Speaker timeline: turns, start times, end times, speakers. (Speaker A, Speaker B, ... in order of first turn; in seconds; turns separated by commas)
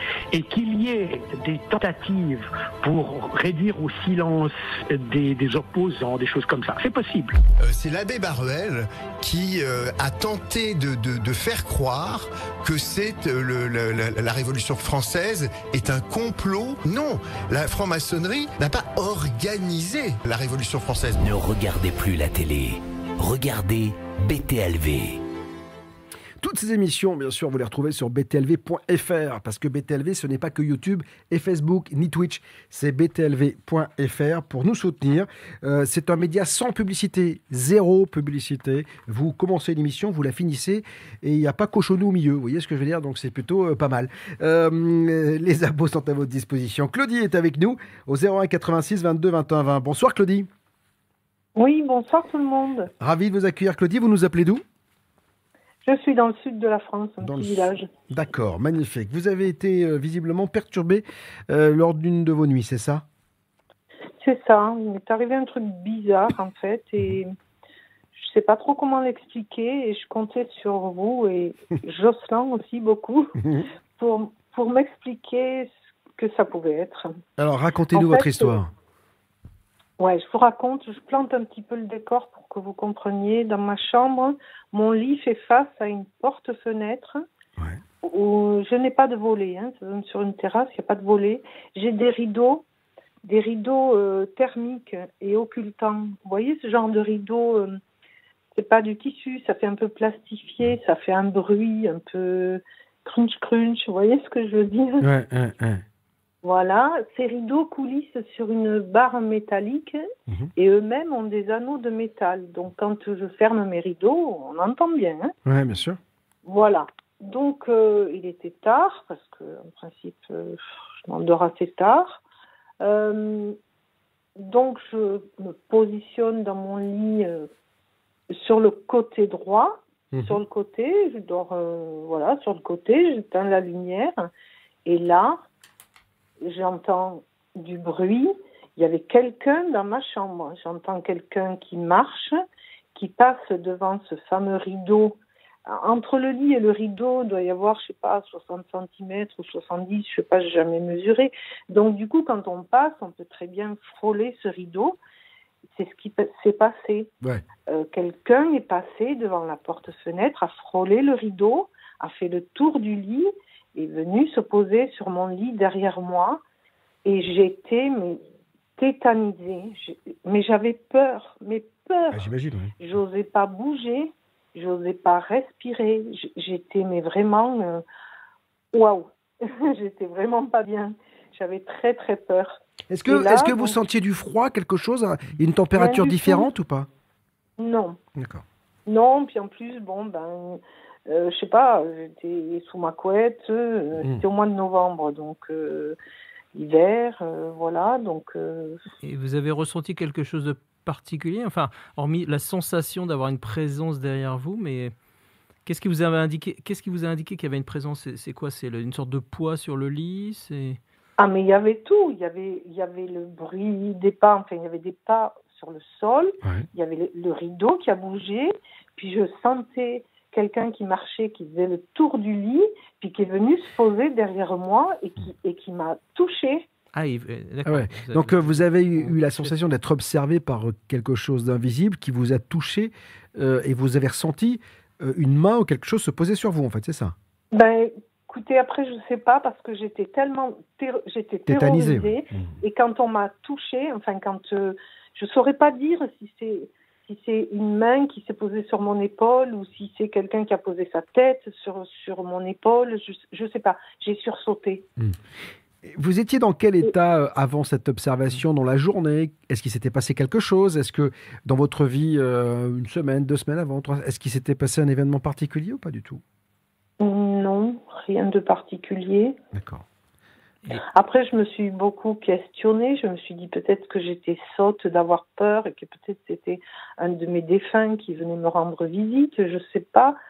Speaker A: 0.3-7.3, Speaker B: 7.6-21.2, Speaker C: 21.2-25.2, Speaker D: 26.4-50.5, Speaker E: 51.6-52.9, Speaker D: 53.0-54.6, Speaker E: 55.8-57.9, Speaker D: 57.2-63.0, Speaker E: 64.2-67.3, Speaker E: 68.2-73.3, Speaker D: 73.4-73.7, Speaker E: 74.0-77.2, Speaker D: 77.4-78.7, Speaker E: 77.9-78.6, Speaker E: 80.0-87.2, Speaker E: 88.0-92.6, Speaker E: 93.2-97.8, Speaker E: 98.5-105.1, Speaker D: 105.0-105.8, Speaker E: 106.4-110.0, Speaker E: 110.6-115.3, Speaker D: 115.5-116.0, Speaker E: 116.5-122.2, Speaker E: 122.8-123.6, Speaker E: 124.4-127.5, Speaker E: 128.3-134.3, Speaker D: 130.1-130.4, Speaker E: 134.9-135.4, Speaker E: 136.4-142.4, Speaker E: 142.9-155.0, Speaker E: 155.7-157.1, Speaker E: 157.7-166.4, Speaker E: 167.1-168.2, Speaker E: 168.8-172.3, Speaker D: 172.1-172.7, Speaker E: 172.8-177.8, Speaker E: 178.7-183.8, Speaker D: 182.9-186.9, Speaker E: 185.8-186.5, Speaker E: 187.6-188.0, Speaker D: 188.2-188.4, Speaker E: 188.9-196.0, Speaker E: 196.5-198.8, Speaker F: 199.0-204.9, Speaker F: 205.7-210.8, Speaker E: 211.2-226.7, Speaker F: 226.9-229.6, Speaker D: 227.7-237.1, Speaker E: 237.5-254.9, Speaker D: 241.5-242.5, Speaker D: 255.8-266.2, Speaker E: 267.0-269.4, Speaker D: 269.5-269.8, Speaker E: 270.9-280.2